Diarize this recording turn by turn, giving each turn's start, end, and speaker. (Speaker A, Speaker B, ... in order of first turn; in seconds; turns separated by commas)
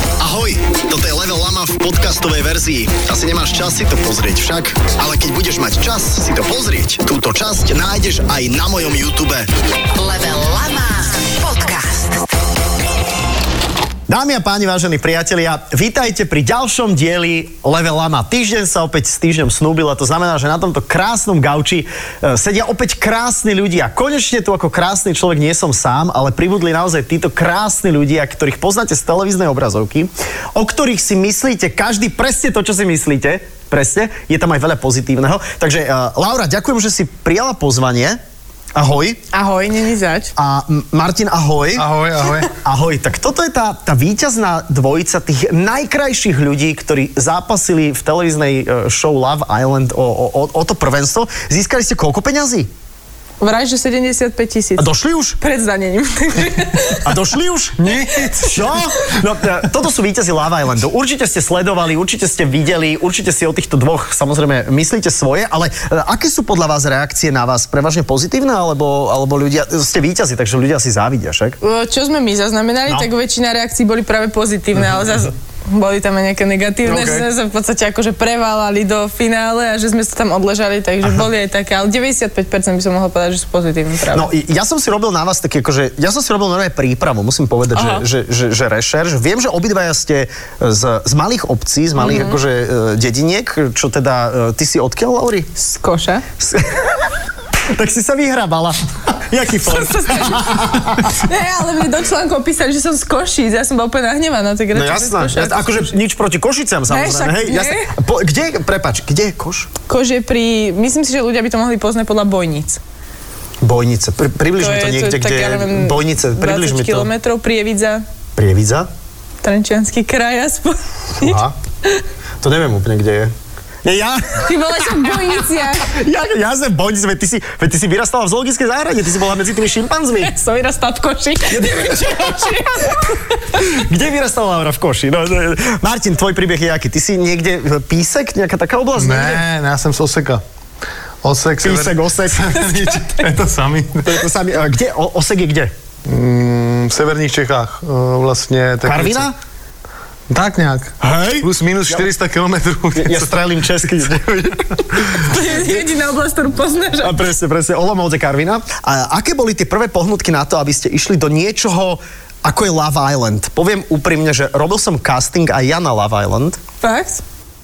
Speaker A: 0.2-9.5, Speaker B: 9.9-12.3, Speaker A: 14.1-38.2, Speaker A: 38.8-39.2, Speaker C: 39.3-40.3, Speaker A: 40.4-41.9, Speaker D: 41.8-42.5, Speaker A: 42.5-52.7, Speaker C: 53.4-54.9, Speaker A: 54.8-55.4, Speaker C: 55.4-57.2, Speaker A: 57.0-57.8, Speaker D: 57.8-58.7, Speaker A: 58.4-71.6, Speaker C: 71.6-84.3, Speaker A: 76.9-77.3, Speaker A: 84.1-95.5, Speaker C: 87.8-88.0, Speaker C: 92.0-92.4, Speaker C: 95.6-96.2, Speaker A: 96.4-97.0, Speaker A: 97.7-101.2, Speaker C: 99.6-105.9, Speaker A: 104.7-109.7, Speaker C: 106.9-107.9, Speaker C: 109.9-112.8, Speaker A: 113.6-117.1, Speaker C: 114.6-118.0, Speaker A: 118.4-118.9, Speaker C: 119.4-122.0, Speaker A: 121.2-121.5, Speaker A: 122.4-123.3, Speaker A: 123.8-130.3, Speaker C: 124.4-125.9, Speaker C: 130.2-133.7, Speaker A: 131.5-132.9, Speaker A: 133.5-139.4, Speaker D: 139.0-140.4, Speaker D: 141.2-144.2, Speaker A: 141.6-143.0, Speaker C: 142.8-143.2, Speaker A: 144.1-145.7, Speaker D: 146.1-149.3, Speaker A: 148.8-149.3, Speaker D: 150.3-153.4, Speaker A: 151.0-152.1, Speaker A: 152.9-155.8, Speaker C: 155.2-157.2, Speaker A: 157.0-166.6, Speaker C: 166.8-167.2